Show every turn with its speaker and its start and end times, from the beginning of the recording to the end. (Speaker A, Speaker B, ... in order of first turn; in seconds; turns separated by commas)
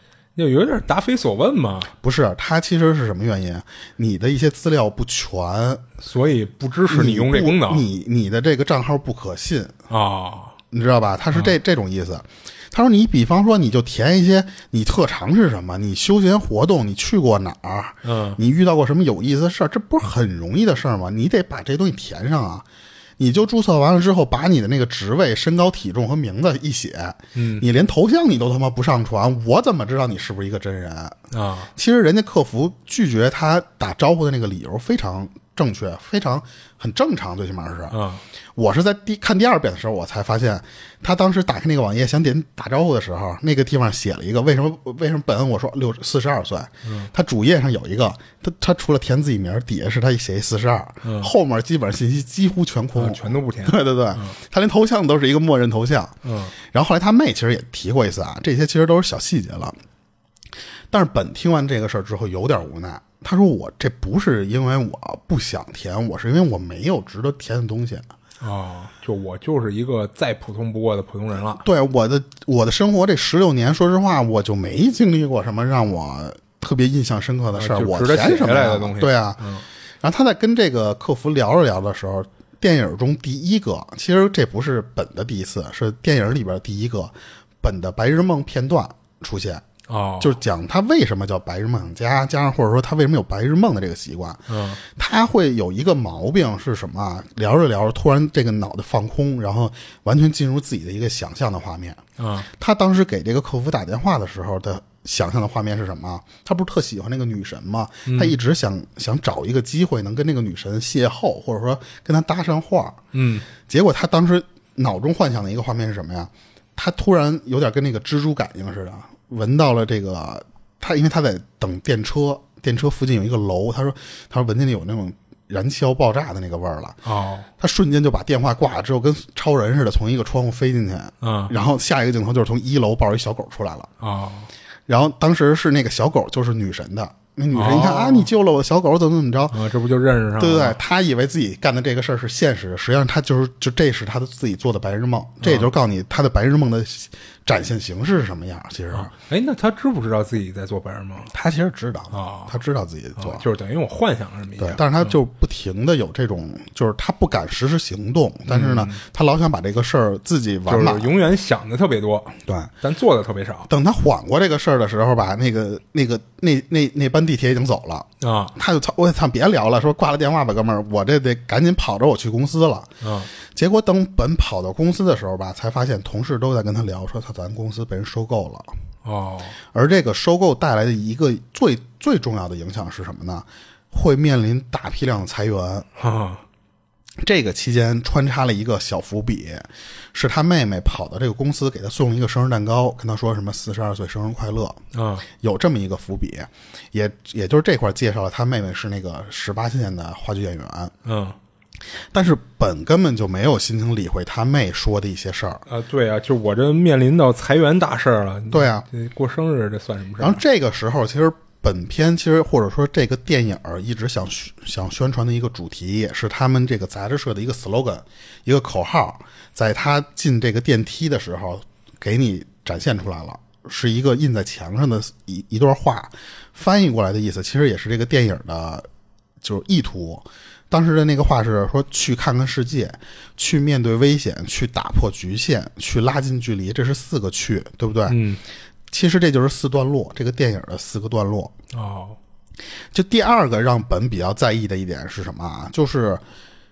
Speaker A: 0.3-1.9, Speaker B: 2.0-5.8, Speaker A: 6.0-7.8, Speaker B: 6.9-9.8, Speaker A: 9.9-10.5, Speaker B: 10.7-22.6, Speaker A: 18.0-18.4, Speaker B: 23.2-31.2, Speaker A: 27.3-27.6, Speaker A: 31.3-31.7, Speaker B: 31.7-38.0, Speaker A: 37.9-38.2, Speaker B: 38.5-59.8, Speaker A: 46.8-47.1, Speaker A: 51.0-51.3, Speaker A: 52.9-54.4, Speaker A: 56.2-56.5, Speaker B: 60.9-68.1, Speaker A: 68.4-71.6, Speaker B: 71.6-79.4, Speaker A: 77.5-79.6, Speaker B: 80.0-89.6, Speaker A: 89.9-90.4, Speaker B: 90.2-113.0, Speaker A: 94.5-94.8, Speaker A: 102.2-102.5, Speaker A: 108.0-108.4, Speaker A: 113.1-113.5, Speaker B: 113.6-127.0, Speaker A: 127.0-127.5, Speaker B: 127.6-133.9, Speaker A: 131.2-131.5, Speaker A: 134.0-134.5, Speaker B: 134.9-139.6, Speaker A: 137.5-138.3, Speaker A: 139.5-140.8, Speaker B: 140.4-149.1, Speaker A: 145.4-145.7, Speaker A: 148.9-151.3, Speaker B: 151.3-153.4, Speaker A: 152.1-152.6, Speaker A: 153.2-155.1, Speaker B: 154.6-161.1, Speaker A: 158.5-159.0, Speaker A: 160.7-163.7, Speaker B: 162.5-162.7, Speaker B: 163.7-172.9, Speaker A: 168.2-168.5, Speaker A: 173.0-173.3, Speaker B: 173.4-178.7, Speaker A: 179.0-179.6, Speaker B: 179.7-185.9, Speaker A: 186.0-186.4, Speaker B: 187.2-194.8, Speaker A: 194.9-195.3, Speaker B: 195.4-200.9, Speaker A: 201.0-201.3, Speaker B: 202.1-205.6, Speaker A: 205.7-210.4, Speaker B: 208.5-208.8, Speaker B: 210.2-228.8, Speaker B: 229.4-238.2, Speaker A: 238.1-238.4, Speaker B: 238.9-241.5, Speaker A: 241.7-242.2, Speaker B: 242.9-246.2